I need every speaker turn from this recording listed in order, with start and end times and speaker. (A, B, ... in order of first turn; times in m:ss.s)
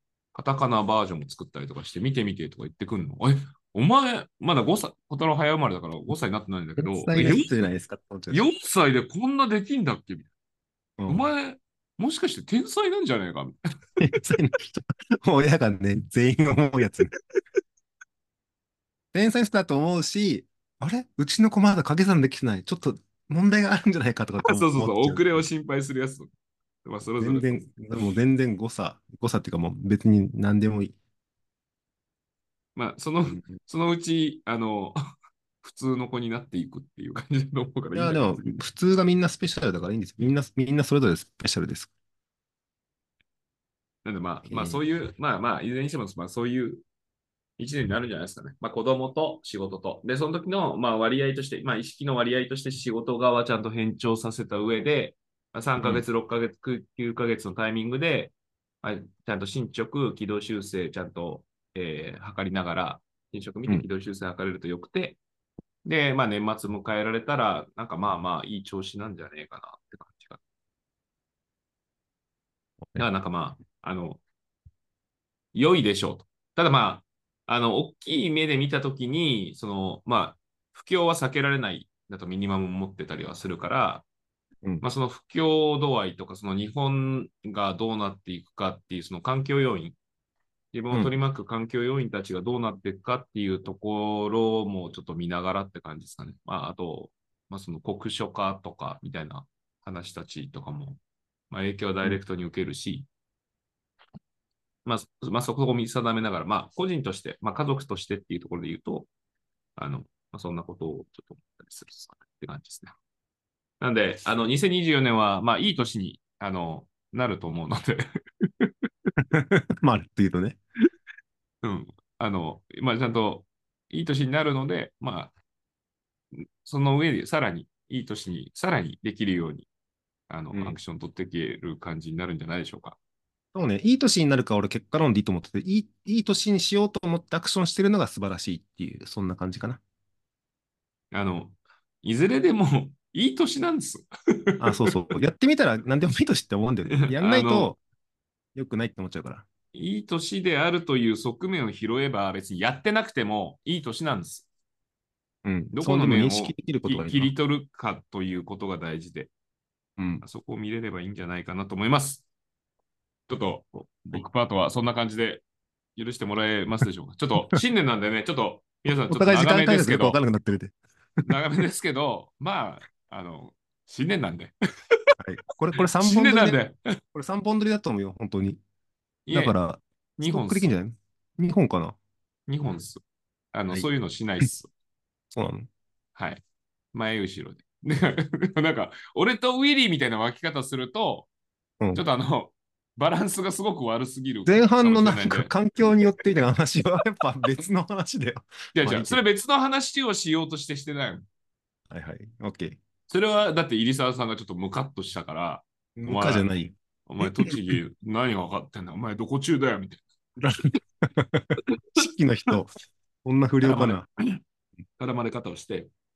0:00.3-0:07.5 A
0:06.8-0:08.4 B
0:08.3-0:10.3 A
0:11.0-0:11.3 B
0:11.1-0:13.5 A
0:14.0-0:17.1 B
0:19.1-0:25.5 B
0:24.4-0:26.3 A
0:26.8-0:27.5 A
0:27.2-0:31.0 B
0:32.8-0:35.0 A
0:35.6-0:38.6 A
0:38.0-0:41.9 B
0:44.0-0:46.8 A
0:44.5-0:44.8 B
0:47.6-1:05.2 A
1:05.8-1:10.4 A
1:13.0-1:14.2 A
1:15.5-1:24.1 A
1:24.8-1:30.0 A
1:30.7-1:41.0 A
1:41.5-1:43.1 A
1:44.9-1:49.1 A
1:49.8-1:53.0 A
1:53.8-1:58.7 A
1:59.3-2:00.6 B
2:01.6-2:05.3 A
2:06.6-2:09.7 A
2:10.3-2:13.0 A
2:13.5-2:19.8 B
2:21.1-2:24.9 A
2:24.6-2:27.8 B
2:27.0-2:27.7 A
2:28.6-2:29.5 B
2:29.7-2:34.5 A
2:35.4-2:37.3 B
2:35.7-2:39.3 A
2:40.0-2:40.2 B
2:40.2-2:42.2 A
2:43.3-2:45.4 A
2:46.0-2:50.2 A
2:49.1-2:50.8 B
2:51.2-2:54.5 A
2:55.2-2:56.6 B
2:55.7-2:56.8 A
2:57.1-2:58.6 B
2:59.3-2:59.6 A
2:59.3-3:02.0 B
3:00.2-3:00.7 A
3:02.5-3:04.7 A
3:05.3-3:05.7 B
3:06.2-3:06.4 A
3:06.9-3:11.3 A
3:11.9-3:15.6 A
3:14.5-3:19.2 B
3:18.8-3:21.2 A
3:21.9-3:22.8 B
3:23.1-3:26.5 A
3:26.0-3:27.5 B
3:27.1-3:30.7 A
3:30.4-3:34.1 B
3:33.6-3:34.4 A
3:35.0-3:35.9 A